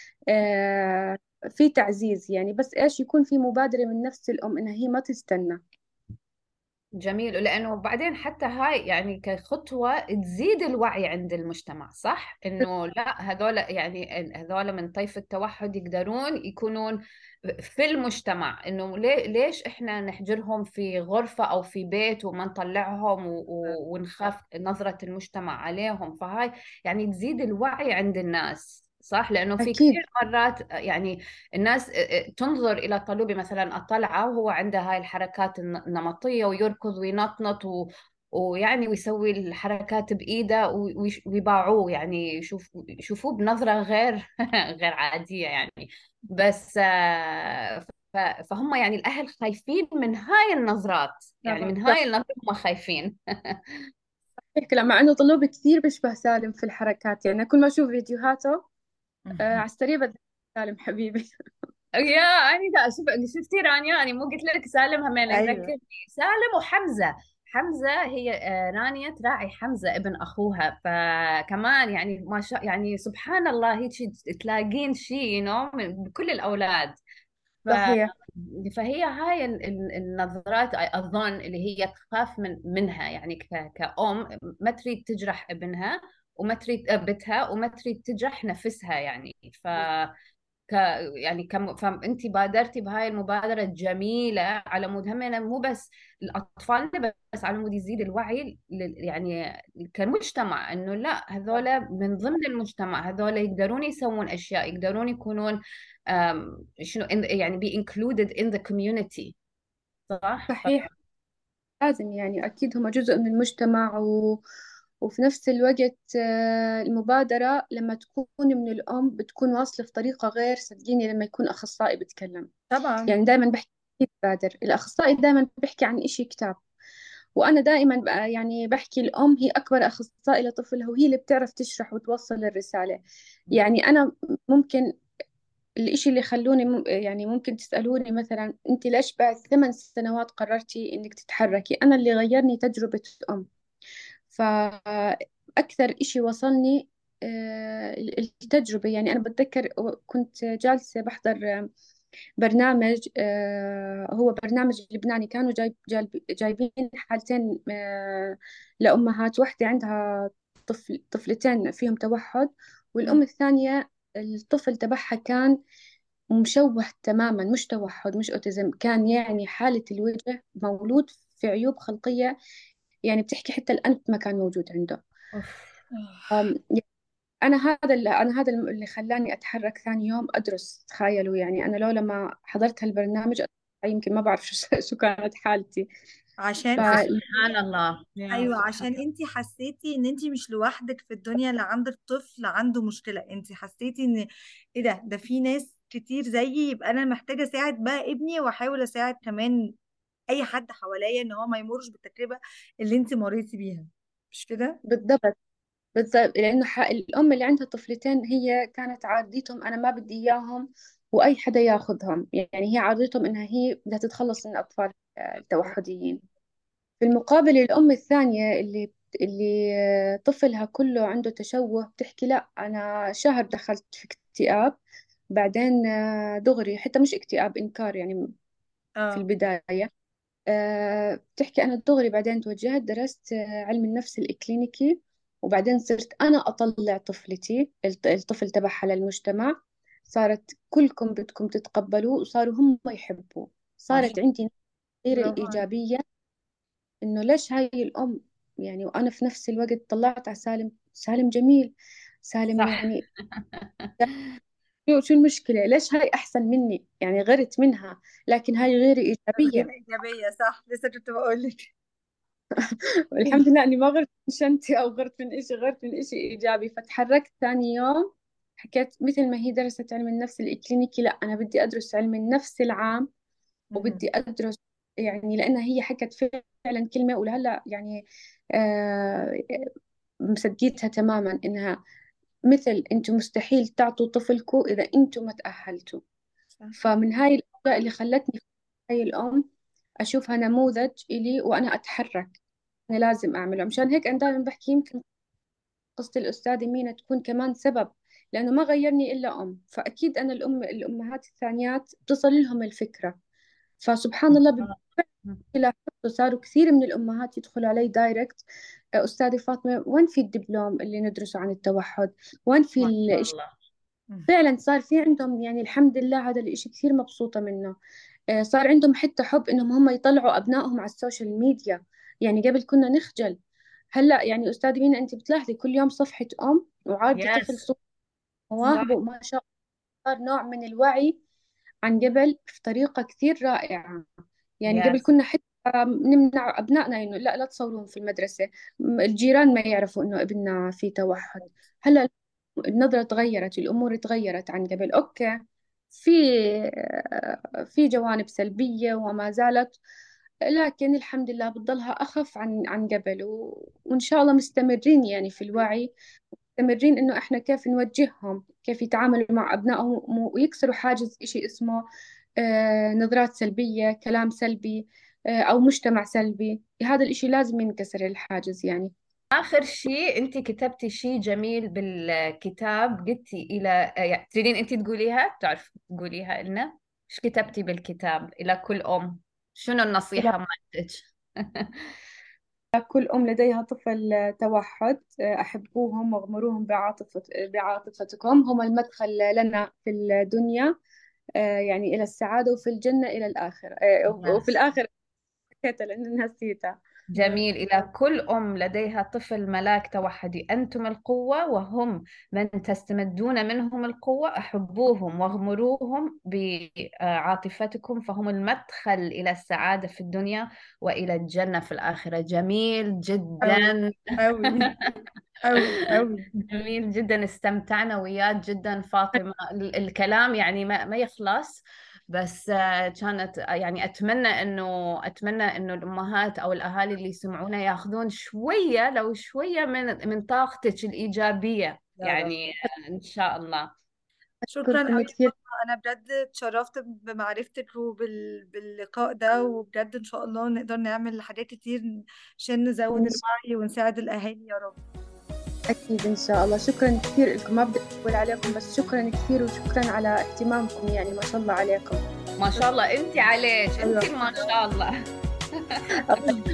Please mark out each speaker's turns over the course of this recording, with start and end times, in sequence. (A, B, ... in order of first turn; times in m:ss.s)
0:00.3-0:05.6 A
0:07.0-0:17.0 B
0:17.6-0:53.6 B
0:29.6-0:30.0 A
0:51.5-0:51.8 C
0:54.5-0:58.6 A
0:59.4-1:01.3 A
1:02.0-1:17.0 B
1:05.3-1:05.7 C
1:17.6-1:30.1 B
1:30.7-1:39.4 B
1:39.9-1:45.6 B
1:46.1-1:49.3 B
1:50.1-1:50.9 B
1:50.5-1:50.9 A
1:51.8-1:54.4 A
1:55.0-2:02.5 A
2:02.7-2:03.1 C
2:03.1-2:06.6 A
2:07.4-2:13.0 A
2:13.5-2:14.9 A
2:15.8-2:23.5 A
2:24.3-2:31.6 A
2:32.4-2:45.5 A
2:46.3-2:52.3 A
2:53.1-2:55.0 A
2:55.3-2:55.8 B
2:56.0-2:56.3 C
2:56.3-2:56.8 A
2:57.4-3:05.9 A
3:06.4-3:07.0 C
3:06.8-3:07.2 A
3:06.8-3:09.0 B
3:08.3-3:14.2 C
3:14.8-3:19.5 C
3:20.3-3:24.8 C
3:24.9-3:25.3 A
3:26.0-3:36.2 A
3:37.0-3:44.8 A
3:45.3-3:48.2 A
3:49.1-3:49.9 A
3:50.5-3:59.5 A
4:00.1-4:04.5 A
4:03.9-4:04.2 B
4:05.0-4:06.0 A
4:05.1-4:05.6 C
4:07.0-4:13.0 A
4:12.6-4:13.9 B
4:14.9-4:19.7 A
4:19.4-4:21.7 C
4:22.6-4:33.1 A
4:33.7-4:34.0 C
4:33.8-4:38.0 A
4:38.6-4:39.7 A
4:40.3-4:41.8 A
4:42.5-4:46.0 A
4:46.8-4:49.4 A
4:50.0-4:52.3 A
4:52.9-4:55.0 A
4:56.0-5:03.2 A
5:03.8-5:04.8 A
5:04.3-5:05.4 B
5:05.5-5:08.4 A
5:09.0-5:13.3 A
5:12.8-5:13.5 B
5:14.3-5:17.7 A
5:18.3-5:23.4 A
5:23.9-5:27.8 A
5:27.1-5:27.6 B
5:28.5-5:29.4 A
5:28.6-5:28.9 B
5:30.0-5:31.2 A
5:31.8-5:34.1 A
5:34.6-5:38.5 A
5:34.6-5:35.0 B
5:39.0-5:42.1 A
5:42.7-5:45.4 A
5:45.9-5:49.8 A
5:50.5-5:55.9 A
5:56.5-6:01.8 A
6:02.4-6:08.9 A
6:09.3-6:21.8 B
6:22.7-6:30.7 A
6:31.4-6:34.9 A
6:34.1-6:34.5 B
6:35.6-6:36.8 A
6:37.1-6:54.0 B
6:53.4-6:54.7 C
6:54.6-6:54.9 B
6:55.4-6:56.3 C
6:56.4-7:13.7 B
7:12.0-7:12.3 C
7:14.5-7:21.9 C
7:14.6-7:15.3 A
7:22.4-7:24.8 C
7:22.9-7:23.2 A
7:25.7-7:32.0 A
7:32.4-7:34.9 B
7:33.8-7:34.5 C
7:35.6-7:35.8 B
7:36.1-7:36.4 A